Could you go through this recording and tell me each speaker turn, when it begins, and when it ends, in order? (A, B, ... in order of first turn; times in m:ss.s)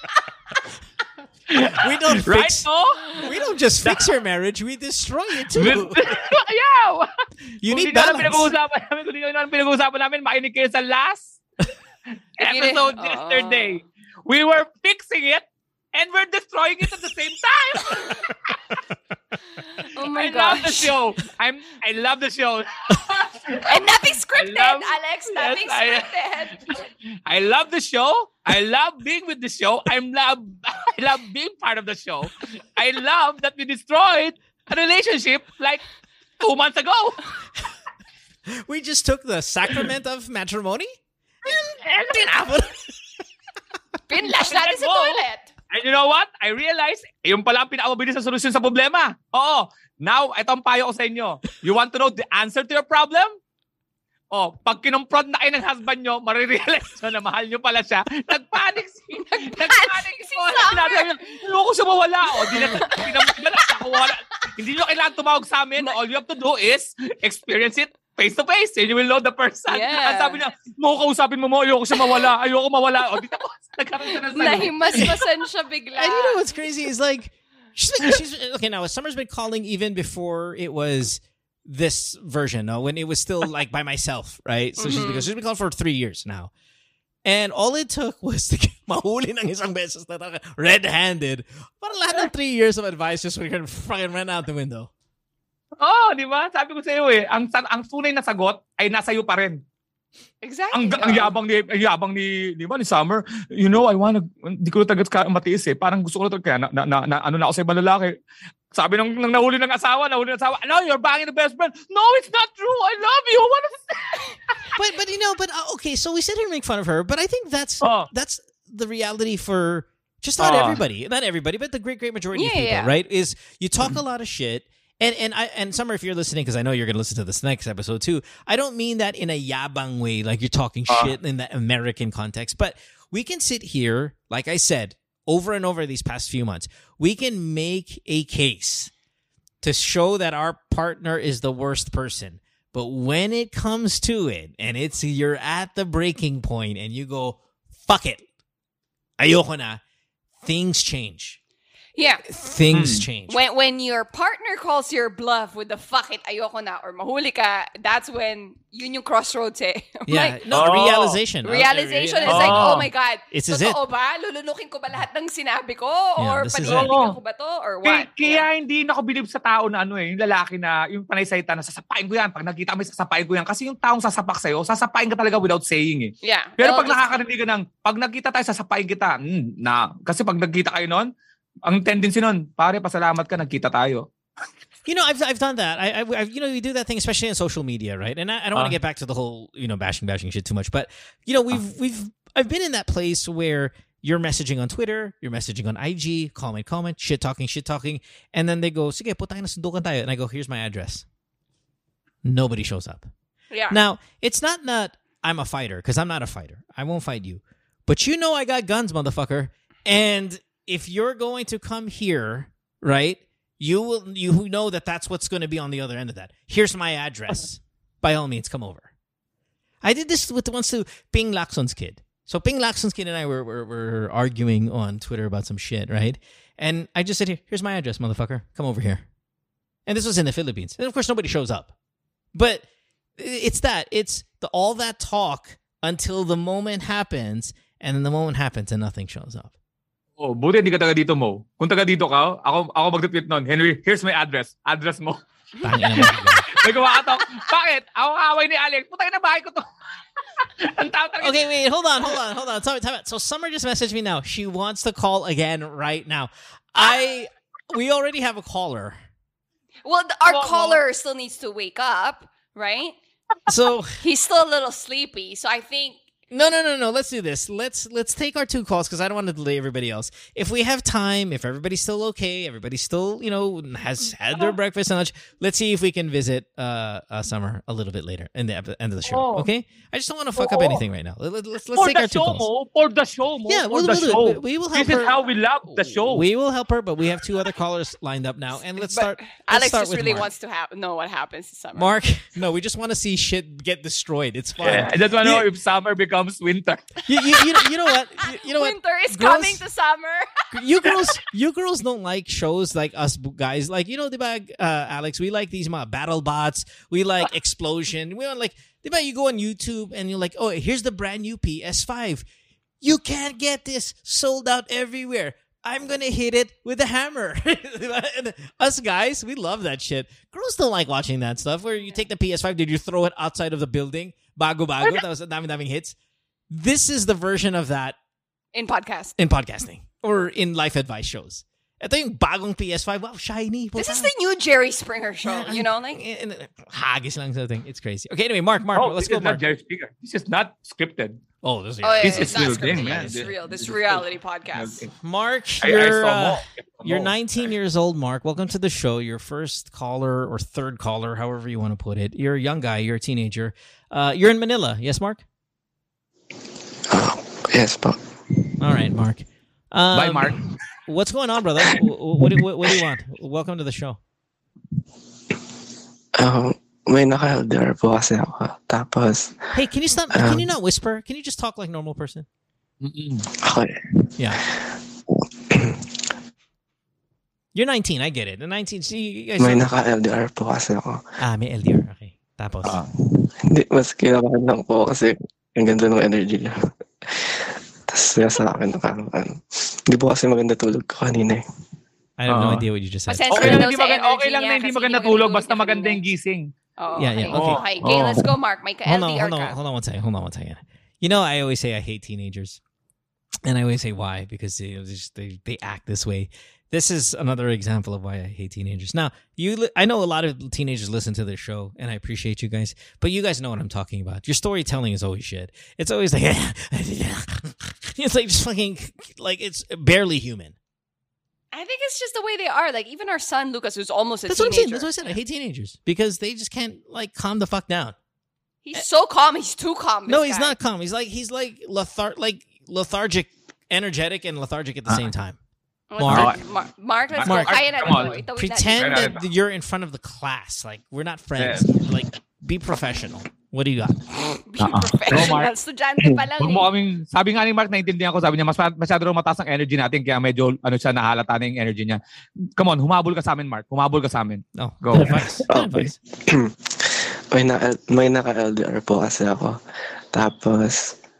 0:01.5-0:03.2 A
0:01.8-0:06.0 B
0:03.8-0:04.1 A
0:05.5-0:07.1 A
0:07.6-0:08.5 B
0:07.6-0:11.4 A
0:12.4-0:15.4 A
0:12.4-0:13.8 C
0:15.9-0:18.8 A
0:19.6-0:20.9 C
0:20.1-0:26.1 A
0:23.6-0:26.8 C
0:26.7-0:35.8 A
0:36.4-0:37.2 A
0:38.5-0:40.9 B
0:41.4-0:42.9 B
0:44.1-0:45.5 C
0:44.4-0:53.3 A
0:54.3-1:15.2 A
0:59.2-1:01.1 C
1:02.3-1:03.4 C
1:09.7-1:10.4 C
1:11.9-1:12.3 C
1:14.3-1:16.4 C
1:16.0-1:26.5 B
1:24.8-1:25.3 C
1:27.2-1:34.9 B
1:35.8-1:39.6 A
1:40.4-1:41.3 C
1:40.7-1:48.1 A
1:48.7-1:54.7 A
1:54.7-2:18.9 B
1:57.8-1:58.1 A
2:00.4-2:00.8 A
2:02.3-2:02.9 C
2:10.9-2:11.1 A
2:19.6-2:28.2 B
2:29.2-2:29.8 B
2:30.4-2:31.4 B
2:32.0-2:32.2 C
2:32.3-2:33.4 B
2:32.7-2:33.0 A
2:33.3-2:40.4 C
2:40.1-2:43.8 B
2:40.5-2:41.2 A
2:41.4-2:48.4 C
2:42.2-2:42.9 A
2:46.2-2:46.9 B
2:46.7-2:47.2 A
2:47.8-3:01.1 A
2:56.2-2:57.2 C
3:01.6-3:04.1 A
3:04.8-3:21.0 B
3:22.2-3:23.1 B
3:23.5-3:23.8 C
3:23.7-3:38.9 B
3:39.8-3:49.0 B
3:49.9-3:51.7 B
3:52.3-3:52.6 B
3:53.2-3:59.5 B
4:00.2-4:05.2 A
4:05.6-4:07.2 C
4:05.6-4:06.5 B
4:05.9-4:09.6 A
4:10.4-4:11.5 A
4:11.2-4:19.0 B
4:19.8-4:23.0 C
4:20.2-4:20.8 A
4:23.5-4:24.0 B
4:24.0-4:26.0 C
4:26.3-4:42.5 B
4:39.0-4:39.5 A
4:40.4-4:40.8 A
4:41.8-4:46.2 A
4:43.5-4:45.2 B
4:45.8-4:50.3 B
4:48.8-4:51.9 C
4:51.8-4:55.4 B
4:54.6-4:57.0 A
4:57.0-4:59.6 B
4:58.2-5:00.3 C
5:00.5-5:12.2 B
5:12.8-5:26.0 B
5:26.5-5:28.0 B
5:28.5-5:29.2 C
5:29.2-5:34.1 B
5:33.8-5:36.0 C
5:35.2-5:39.4 B
5:38.7-5:41.2 A
5:41.4-5:43.3 B
5:41.8-5:44.8 C
5:42.0-5:44.9 A
5:45.0-5:55.2 B
5:45.6-5:47.1 A
5:56.9-5:58.5 D
5:58.6-6:04.0 B
5:59.9-6:00.4 A
6:06.2-6:09.4 D
6:09.5-6:12.2 B
6:10.1-6:10.5 D
6:12.8-6:13.2 A
6:13.4-6:16.1 D
6:14.2-6:14.4 B
6:17.5-6:19.8 B
6:19.4-6:21.0 D
6:21.2-6:22.8 B
6:23.1-6:31.4 D
6:32.2-6:33.6 B
6:32.3-6:32.6 A
6:33.1-6:36.0 C
6:33.3-6:36.5 A
6:36.8-6:39.6 C
6:37.0-6:37.6 B
6:37.3-6:38.2 A
6:38.8-6:42.6 B
6:43.4-7:00.5 B
7:01.5-7:05.2 C
7:04.3-7:07.9 B
7:08.6-7:10.6 C
7:10.1-7:15.4 B
7:15.9-7:19.2 C
7:16.0-7:16.3 B
7:16.1-7:16.4 A
7:17.1-7:18.2 A
7:17.2-7:24.0 B
7:18.8-7:19.2 A
7:21.4-7:21.7 A
7:24.5-7:26.7 C
7:24.6-7:25.5 A
7:26.4-7:32.0 A
7:32.6-7:35.2 A
7:34.6-7:36.0 B
7:34.9-7:39.5 D
7:40.1-7:40.9 D